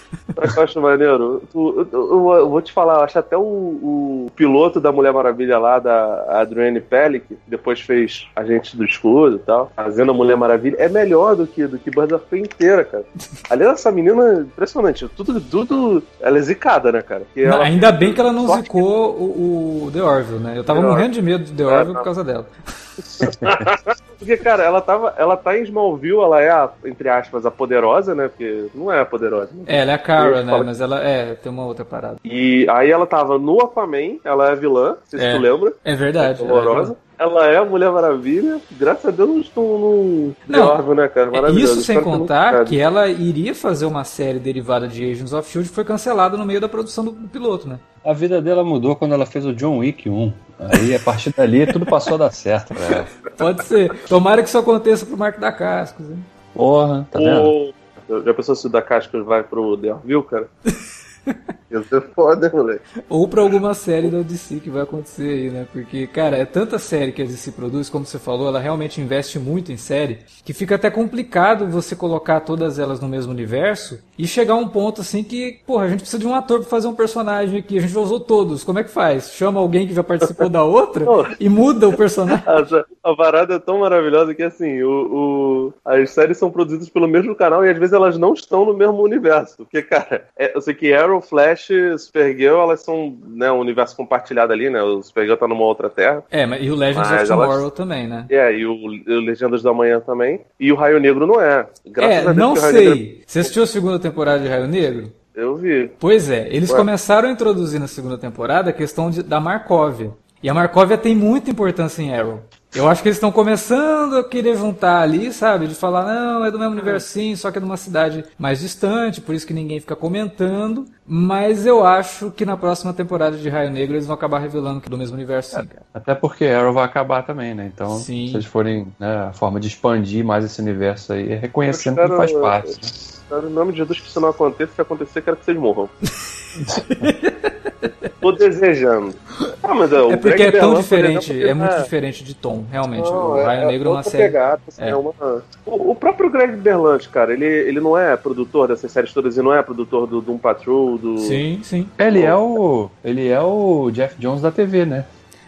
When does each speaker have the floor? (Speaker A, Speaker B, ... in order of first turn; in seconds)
Speaker A: 0.4-18.8, 20.7-21.1, 21.7-22.1, 23.1-30.7, 32.2-42.8, 57.1-60.5, 61.7-62.8, 81.0-81.4, 82.3-96.2, 96.9-97.6, 98.3-103.5, 105.3-105.9, 131.7-132.7, 133.3-135.9, 138.2-141.9, 143.0-151.4, 152.1-152.4
Speaker B: 17.4-22.5, 29.7-32.2, 35.2-36.9, 40.5-40.8, 41.3-47.8, 52.9-56.3, 63.1-82.5, 96.3-98.3, 102.0-105.1, 106.0-125.8, 127.9-128.5, 136.6-138.1, 140.1-145.0, 151.2-151.9
Speaker C: 48.0-53.1, 56.5-57.5, 125.5-132.9, 152.0-155.1